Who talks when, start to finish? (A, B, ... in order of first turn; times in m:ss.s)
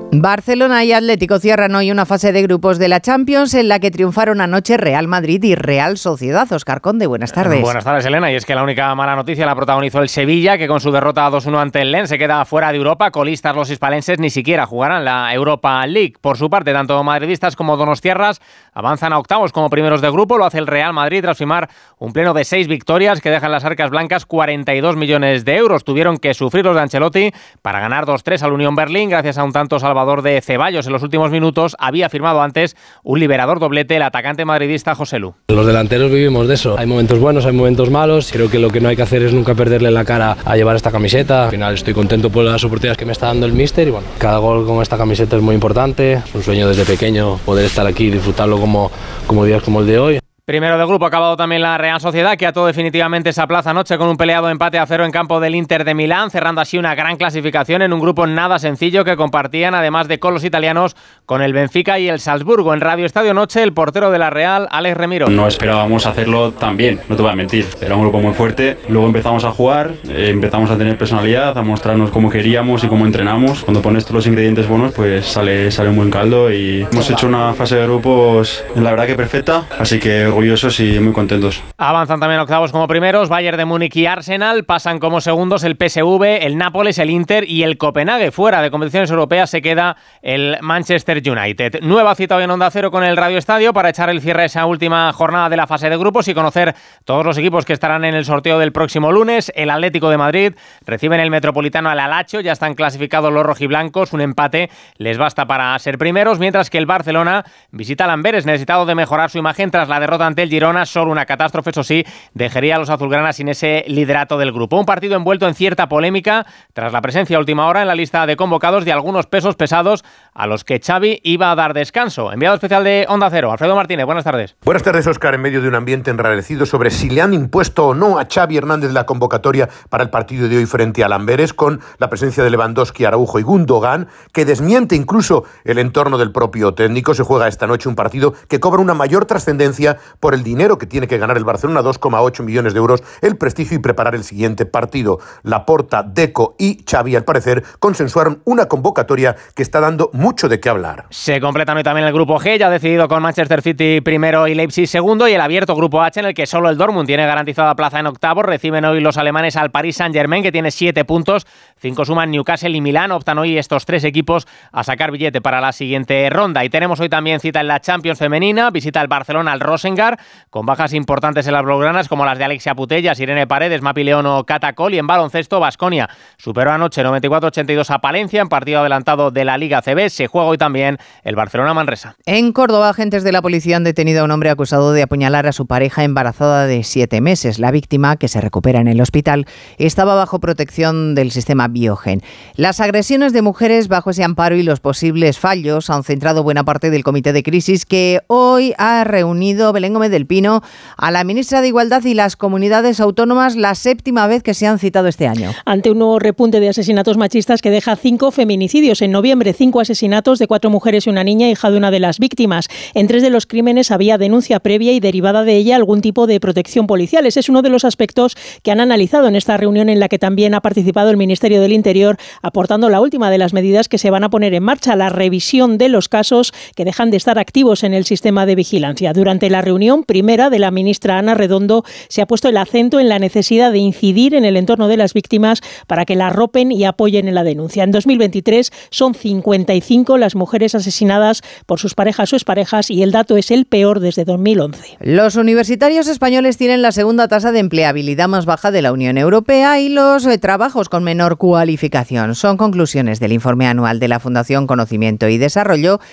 0:00.1-0:07.7 A
0:07.4-0:35.3 B
0:35.5-0:50.2 C
0:50.5-1:05.3 B
1:05.2-1:21.6 D
1:21.8-2:04.5 B
2:04.6-2:31.0 E
2:31.1-3:02.1 B
3:02.3-3:25.5 A
3:25.7-4:04.9 F
4:05.0-4:16.0 A